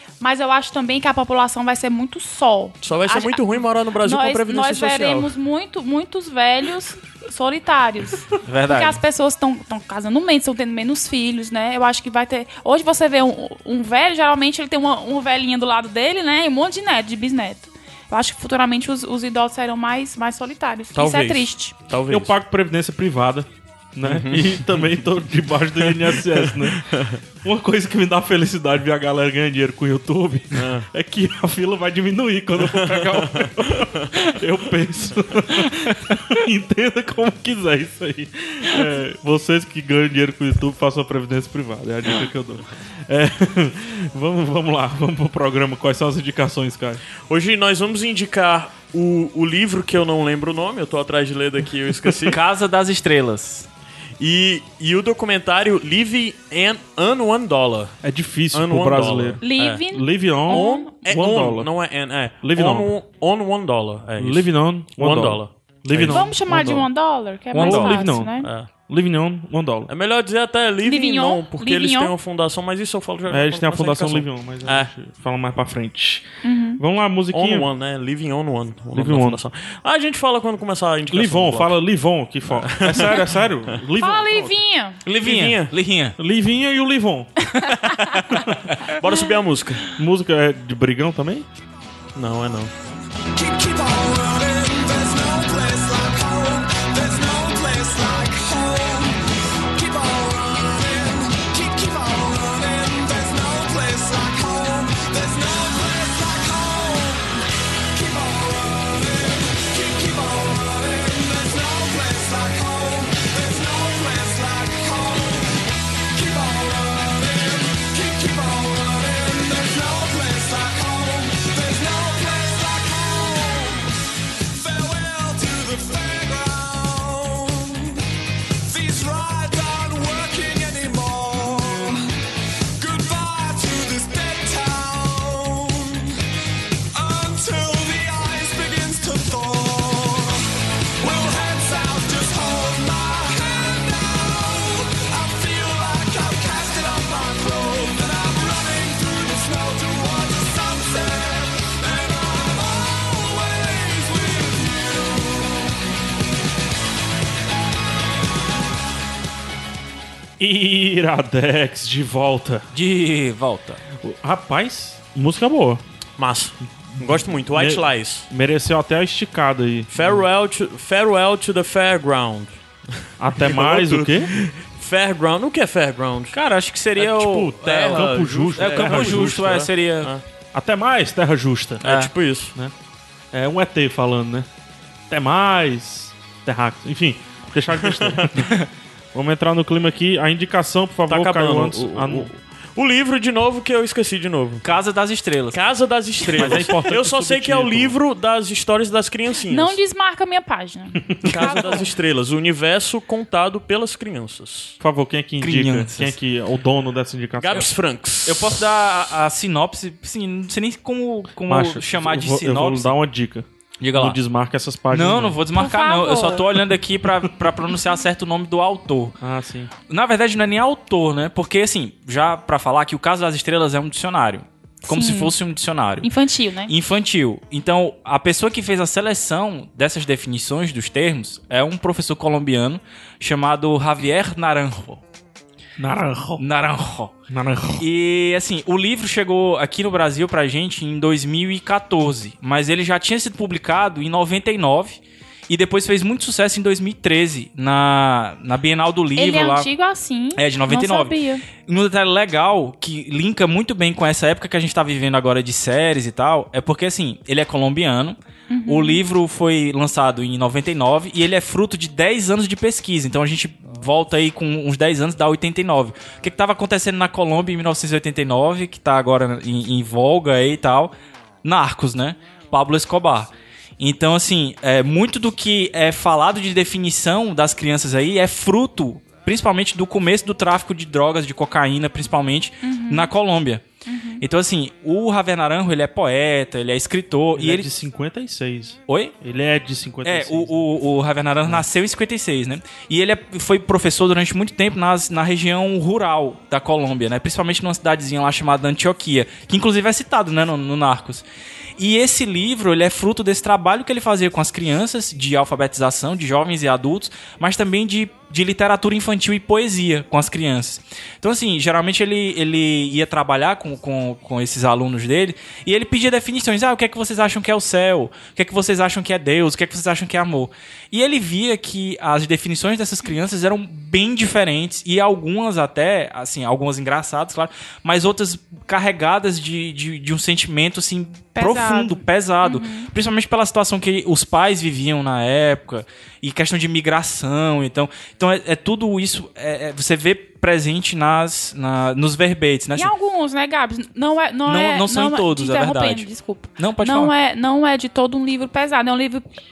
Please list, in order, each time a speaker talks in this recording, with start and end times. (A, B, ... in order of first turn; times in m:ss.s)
0:00.2-0:21.8 A
0:02.8-0:05.3 B
0:08.4-0:09.0 C
0:20.9-0:22.3 B
0:22.1-0:26.8 D
0:24.0-0:24.7 B
0:25.8-0:27.2 B
0:27.4-0:47.0 D
0:30.5-0:30.8 B
0:32.6-0:34.0 B
0:47.2-0:52.4 B
0:52.2-0:53.7 C
0:54.2-0:58.0 B
0:58.0-1:01.7 D
0:58.5-0:59.8 B
0:59.4-1:01.0 A
1:00.5-1:06.3 B
1:02.4-1:02.9 D
1:04.2-1:06.9 D
1:06.1-1:08.5 A
1:07.5-1:08.0 C
1:07.6-1:09.9 D
1:08.4-1:08.7 B
1:09.9-1:14.9 B
1:10.8-1:12.1 A
1:13.3-1:16.3 D
1:16.4-1:16.8 A
1:16.8-1:17.7 D
1:17.3-1:21.8 B
1:18.9-1:19.4 D
1:21.1-1:24.6 D
1:22.6-1:23.3 B
1:24.0-1:25.0 A
1:25.0-1:26.2 C
1:25.2-1:25.7 B
1:26.2-1:27.4 D
1:27.6-1:28.2 A
1:27.7-1:28.2 C
1:28.4-1:28.6 D
1:29.0-1:29.8 B
1:30.0-1:31.4 D
1:32.1-1:32.7 B
1:33.3-2:08.0 E
2:08.6-2:12.2 E
2:12.8-2:16.2 E
2:16.9-2:20.5 E
2:21.0-2:35.7 E
2:40.4-2:42.7 D
2:42.7-2:43.8 C
2:44.0-2:45.8 D
2:46.2-2:48.3 B
2:46.9-2:50.2 D
2:49.9-2:56.4 B
2:53.2-2:54.3 D
2:56.3-3:00.1 C
2:57.0-3:00.2 B
2:57.2-2:59.6 D
3:00.5-3:01.8 D
3:01.8-3:02.1 C
3:01.8-3:02.5 B
3:03.3-3:04.5 D
3:05.1-3:08.5 D
3:07.8-3:08.5 B
3:09.1-3:12.3 D
3:11.1-3:14.6 B
3:14.6-3:15.6 C
3:15.5-3:19.8 B
3:16.2-3:16.6 C
3:16.4-3:18.0 D
3:19.4-3:21.8 A
3:21.2-3:21.5 D
3:21.2-3:24.8 B
3:24.8-3:27.7 D
3:25.4-3:26.1 C
3:27.4-3:28.7 B
3:28.2-3:32.9 C
3:31.5-3:35.4 D
3:33.8-3:34.2 C
3:34.9-3:39.2 C
3:35.5-3:36.5 A
3:39.2-3:39.7 D
3:39.9-3:46.1 C
3:44.8-3:45.4 A
3:46.0-3:46.7 A
3:46.7-3:55.0 C
3:55.8-3:56.4 D
3:56.4-3:57.2 C
3:57.3-3:57.8 D
3:57.8-4:09.7 C
4:09.2-4:11.4 A
4:10.4-4:30.9 C
4:18.5-4:19.0 A
4:31.4-4:43.7 C
4:42.6-4:43.1 A
4:43.8-4:44.2 A
4:44.2-4:47.7 C
4:47.3-4:50.6 D
4:48.9-4:49.1 C
4:50.0-5:01.2 C
5:01.8-5:42.9 C
5:31.4-5:32.9 A
5:42.7-5:49.2 A
5:44.4-5:47.1 C